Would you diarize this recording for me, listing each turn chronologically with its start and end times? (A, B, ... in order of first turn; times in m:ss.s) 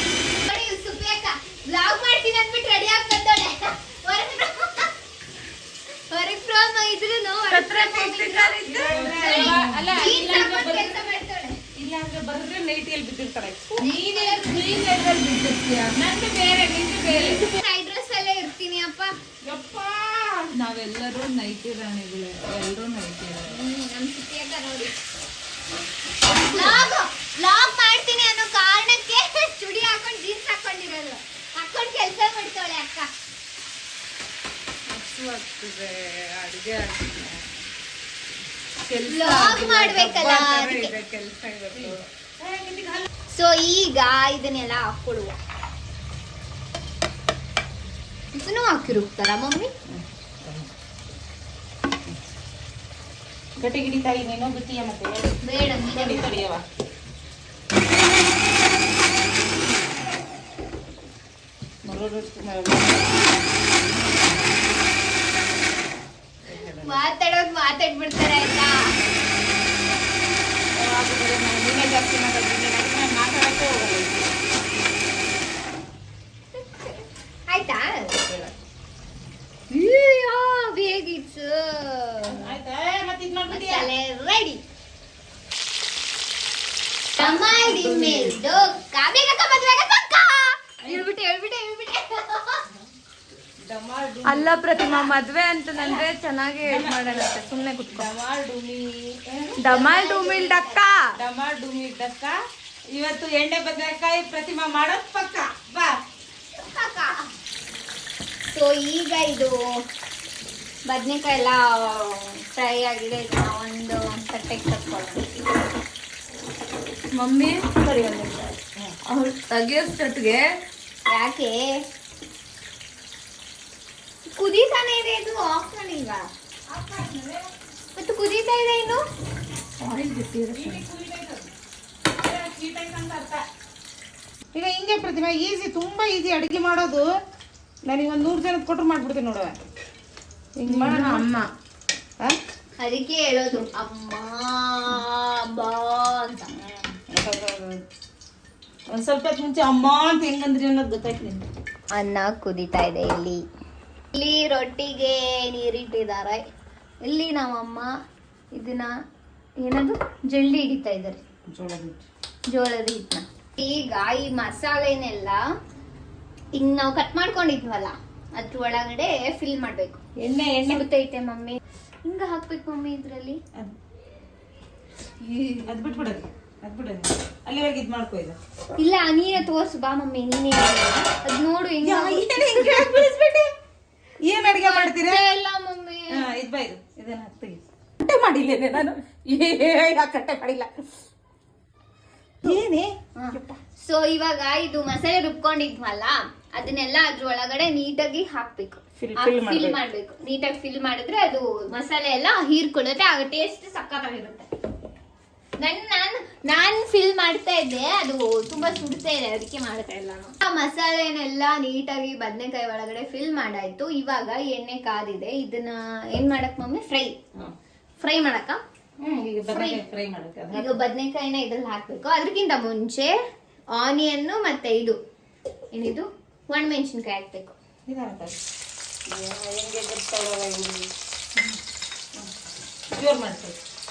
0:00.4-0:04.9 A
0:06.1-0:11.6 A
0:07.5-0:10.0 B
0:08.7-0:11.0 C
0:11.8-0:17.4 C
0:13.8-0:14.8 A
0:17.1-0:19.1 A
0:19.4-0:23.6 C
0:23.4-0:24.9 A
0:26.4-0:33.1 A
0:26.4-0:26.9 C
0:34.9-0:37.5 C
0:38.9-0:43.1 C
0:39.0-0:41.0 A
0:39.2-0:39.4 B
0:43.3-0:45.4 A
0:48.3-0:49.7 A
0:49.9-0:50.7 C
0:53.6-0:56.6 C
0:55.4-0:56.4 A
1:01.8-1:03.2 C
1:06.4-1:07.0 C
1:06.8-1:08.9 A
1:10.7-1:14.3 C
1:16.6-1:18.2 A
1:18.2-1:18.5 C
1:19.7-1:22.5 A
1:22.2-1:23.9 C
1:23.5-1:24.6 A
1:27.2-1:32.6 A
1:27.2-1:28.5 C
1:33.6-1:35.1 C
1:34.2-1:38.1 B
1:35.8-1:36.0 A
1:36.6-1:39.6 C
1:39.6-1:40.9 A
1:39.6-1:41.2 B
1:41.2-1:42.4 C
1:42.9-1:46.0 C
1:46.6-1:47.3 A
1:48.4-1:49.7 A
1:50.9-1:55.4 A
1:57.1-2:00.5 B
2:01.1-2:01.8 A
2:04.3-2:06.3 A
2:06.7-2:07.5 C
2:07.9-2:09.0 A
2:09.8-2:10.8 B
2:10.5-2:11.5 C
2:12.1-2:13.4 C
2:14.6-2:17.1 C
2:17.8-2:19.6 C
2:20.6-2:21.2 C
2:20.7-2:21.5 B
2:22.8-2:26.5 A
2:26.5-2:27.8 C
2:28.9-2:31.5 C
2:31.9-2:33.4 A
2:34.1-2:36.4 A
2:37.0-2:37.9 A
2:38.6-2:38.9 A
2:39.6-2:41.2 A
2:41.5-2:42.1 C
2:42.5-2:45.4 A
2:46.5-2:53.4 A
2:50.2-2:50.7 C
2:55.2-2:55.7 A
2:55.7-2:58.4 C
2:58.8-3:03.0 A
3:01.8-3:03.5 C
3:04.2-3:05.2 C
3:04.6-3:06.3 A
3:06.1-3:10.7 C
3:12.4-3:13.6 C
3:13.2-3:24.5 A
3:19.0-3:19.8 C
3:25.6-3:37.2 A
3:38.0-3:38.6 A
3:39.0-3:40.8 C
3:39.5-3:39.8 A
3:40.5-3:43.2 A
3:43.7-3:45.0 A
3:45.7-3:47.6 A
3:47.9-3:48.4 C
3:49.1-3:50.9 C
3:52.9-3:53.6 C